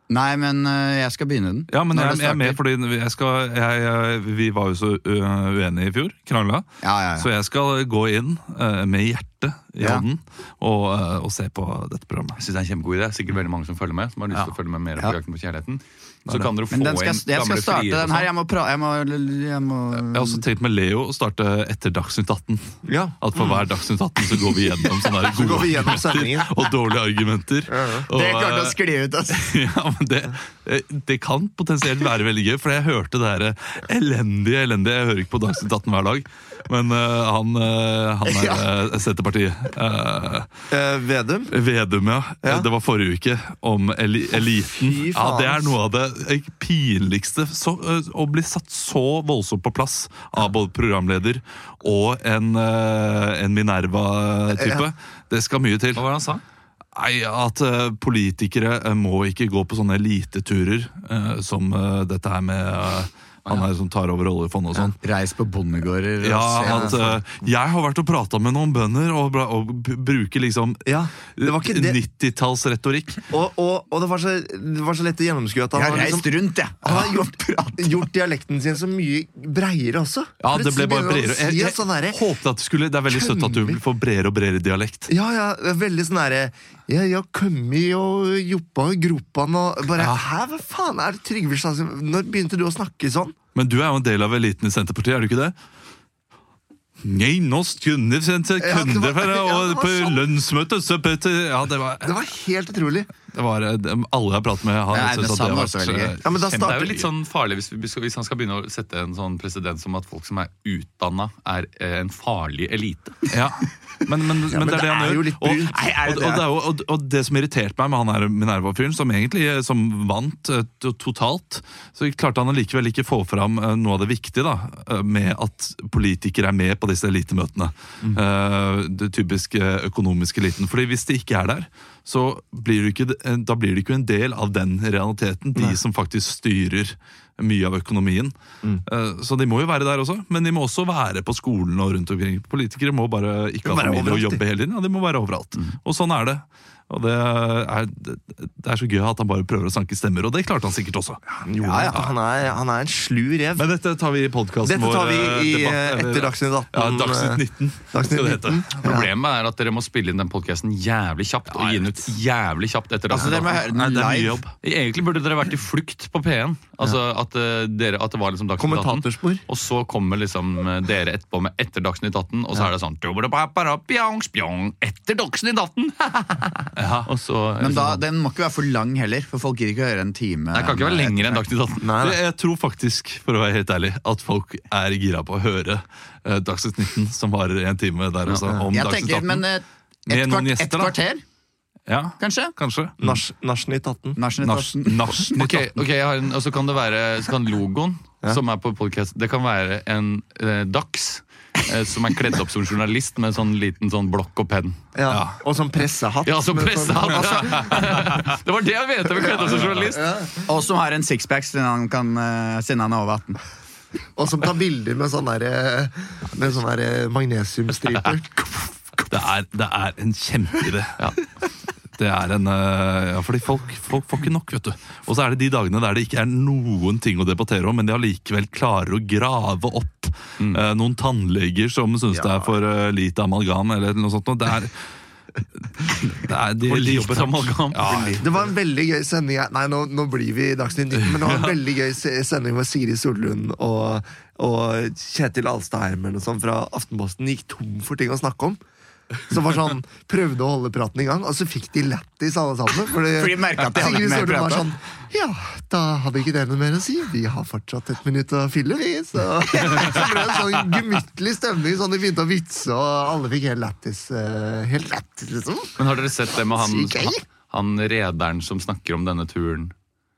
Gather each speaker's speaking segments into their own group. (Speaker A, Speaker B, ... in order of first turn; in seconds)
Speaker A: 0.1-2.6, 6.8-7.3, 16.7-20.4, 28.1-29.6, 38.2-38.7, 65.0-67.2, 75.8-78.0, 104.9-106.2, 115.7-116.5, 151.6-152.1, 163.1-164.4, 177.6-181.4, 188.3-191.2, 192.2-192.5, 194.2-195.4, 210.4-213.4, 253.2-254.7
Speaker B: 1.7-12.4, 20.1-28.8, 29.3-40.5, 41.5-56.0, 56.9-65.0, 66.2-73.2, 80.4-85.1, 90.0-90.2, 93.5-95.5, 97.0-102.2, 103.3-107.0, 113.3-138.3, 138.8-151.2, 153.6-159.1, 161.5-162.1, 163.4-164.5, 176.8-177.1, 182.0-189.5, 190.1-190.9, 191.9-193.2, 194.4-195.8, 205.1-205.4, 219.1-221.0, 222.0-234.8, 236.1-238.2, 241.0-241.6
Speaker C: 12.4-18.3, 56.0-56.4, 106.5-113.2, 158.8-163.7, 164.6-178.0, 180.5-181.9, 195.4-204.8, 206.2-210.2, 236.6-238.2, 265.8-269.7
Speaker D: 22.9-23.2, 25.3-26.5, 27.7-28.1, 40.7-41.5, 42.4-42.7, 44.8-45.8, 54.5-54.9, 66.6-67.0, 70.9-72.0, 73.3-76.3, 76.8-82.2, 83.1-83.8, 85.1-93.4, 98.6-100.2, 102.0-103.1, 106.2-107.0, 114.5-115.8, 143.6-144.4, 151.3-153.7, 154.6-159.1, 168.6-169.4, 181.8-182.2, 193.0-194.2, 204.9-207.9, 209.3-210.5, 214.2-219.2, 232.1-232.5, 238.2-248.6, 249.2-265.8, 266.3-267.2